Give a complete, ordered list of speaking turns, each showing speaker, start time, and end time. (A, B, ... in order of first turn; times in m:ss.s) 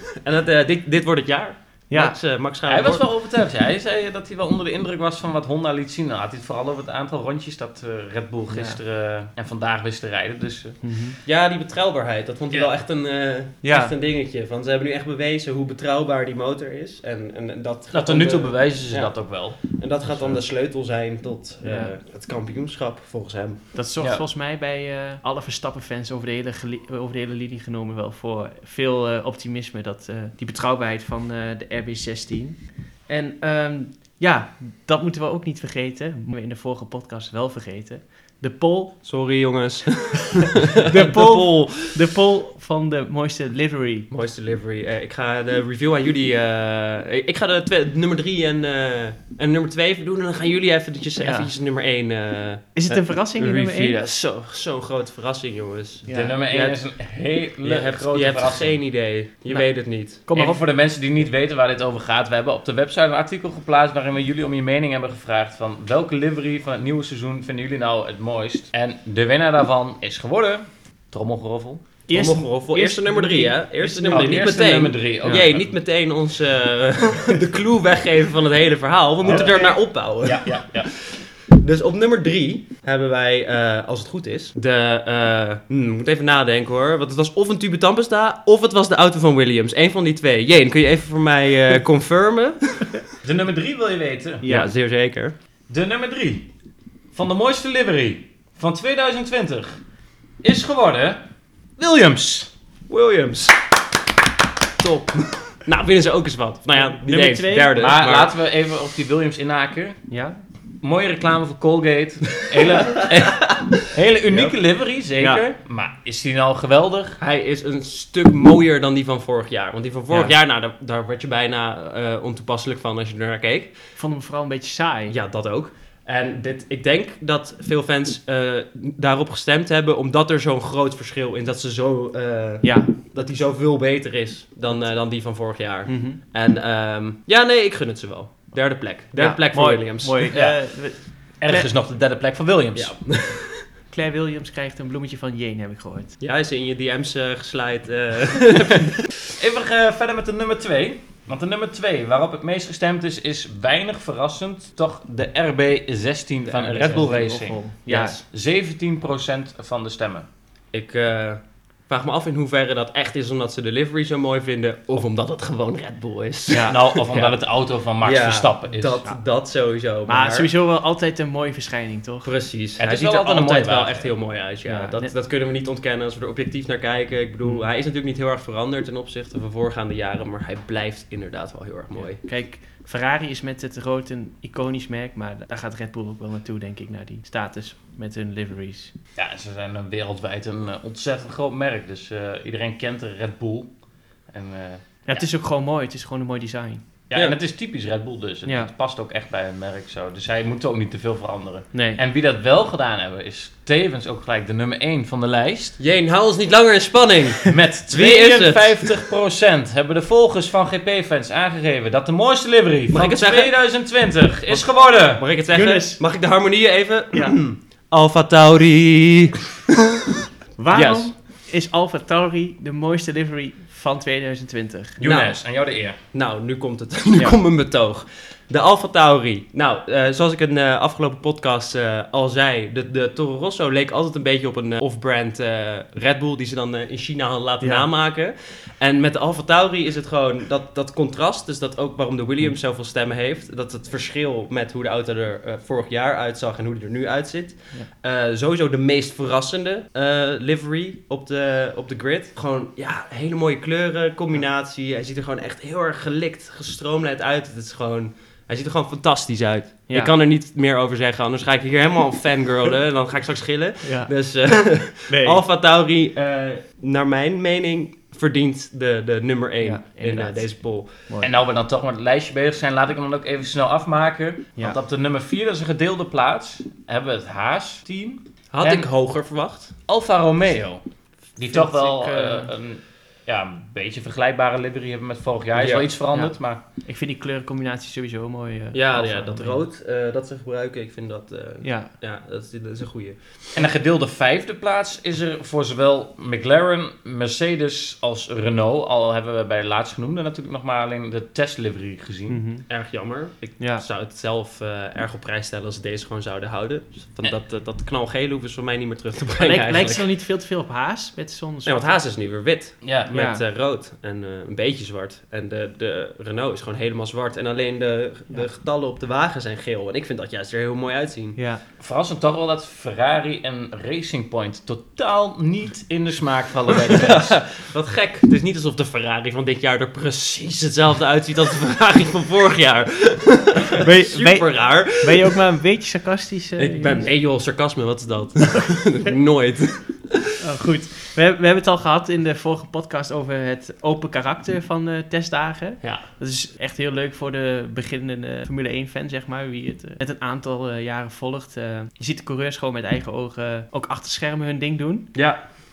0:00.2-0:03.0 A
0:01.9-0:02.2 B
0:02.6-0:10.8 C
0:08.5-0:08.8 B
0:10.8-0:11.2 B
0:11.2-0:23.6 A
0:13.6-0:13.9 B
0:17.9-0:20.3 C
0:21.6-0:21.9 B
0:23.7-0:39.0 B
0:24.0-0:24.2 C
0:39.0-0:42.0 A
0:40.8-0:44.1 B
0:44.1-0:56.9 A
0:51.2-0:51.5 B
0:52.7-0:54.0 B
0:56.0-0:56.4 B
0:56.1-0:58.8 C
0:57.6-1:00.2 A
0:59.5-1:00.6 B
1:00.3-1:11.8 C
1:12.1-1:14.6 B
1:12.1-1:33.0 A
1:14.1-1:15.7 C
1:15.2-1:15.5 B
1:19.2-1:19.7 B
1:19.2-1:20.9 C
1:33.2-1:34.4 C
1:34.4-1:34.7 B
1:34.4-1:35.4 A
1:35.7-1:36.5 C
1:37.1-1:39.7 C
1:40.4-1:41.2 C
1:41.8-1:42.5 C
1:42.9-1:43.6 A
1:44.8-1:48.3 A
1:46.7-1:47.7 B
1:47.8-1:50.0 C
1:50.1-1:50.4 B
1:50.8-1:57.2 C
1:55.2-1:55.4 B
1:57.2-2:03.8 A
2:03.9-2:05.1 B
2:05.1-2:20.3 A
2:12.6-2:12.9 B
2:15.9-2:16.2 B
2:19.1-2:21.7 B
2:20.3-2:20.8 C
2:21.4-2:23.0 C
2:22.7-2:23.6 A
2:23.9-2:26.2 B
2:26.2-2:28.9 A
2:29.4-2:37.6 C
2:36.4-2:37.1 A
2:36.8-2:38.2 B
2:37.9-2:38.2 A
2:38.2-2:40.2 C
2:40.7-2:47.5 A
2:46.5-2:46.8 B
2:46.6-2:49.0 C
2:48.0-2:50.5 A
2:50.1-2:52.3 B
2:52.2-3:02.2 A
2:52.8-2:54.1 C
2:54.6-2:55.1 B
3:01.9-3:08.9 B
3:09.2-3:13.7 C
3:14.3-3:15.2 C
3:15.0-3:16.8 B
3:17.1-3:25.8 C
3:18.4-3:18.7 B
3:21.7-3:22.0 B
3:25.8-3:28.9 A
3:27.5-3:35.2 C
3:32.9-3:39.4 A
3:35.5-3:36.0 B
3:40.6-3:45.0 B
3:40.7-3:41.1 A
3:45.0-3:46.0 C
3:45.0-4:31.1 A
3:57.6-3:57.9 B
4:23.8-4:24.3 B
4:24.9-4:25.4 B
4:29.6-4:31.3 B
4:31.2-4:38.9 C
4:38.5-4:39.7 A
4:39.9-4:40.8 C
4:41.4-4:46.6 C
4:41.4-4:42.5 B
4:45.5-4:45.9 A
4:46.1-4:49.6 B
4:48.7-4:53.7 A
4:51.6-4:51.9 B
4:53.5-5:02.4 C
5:02.3-5:02.6 B
5:02.7-5:10.1 A
5:03.6-5:03.8 B
5:09.4-5:12.0 B
5:11.6-5:21.4 A
5:12.8-5:13.1 C
5:13.1-5:13.4 B
5:21.4-5:21.6 B
5:21.8-5:27.4 C
5:26.7-5:35.4 A
5:33.8-5:37.1 B
5:36.6-5:40.2 A
5:40.4-5:55.1 B
5:45.8-5:46.0 A
5:55.1-5:55.4 A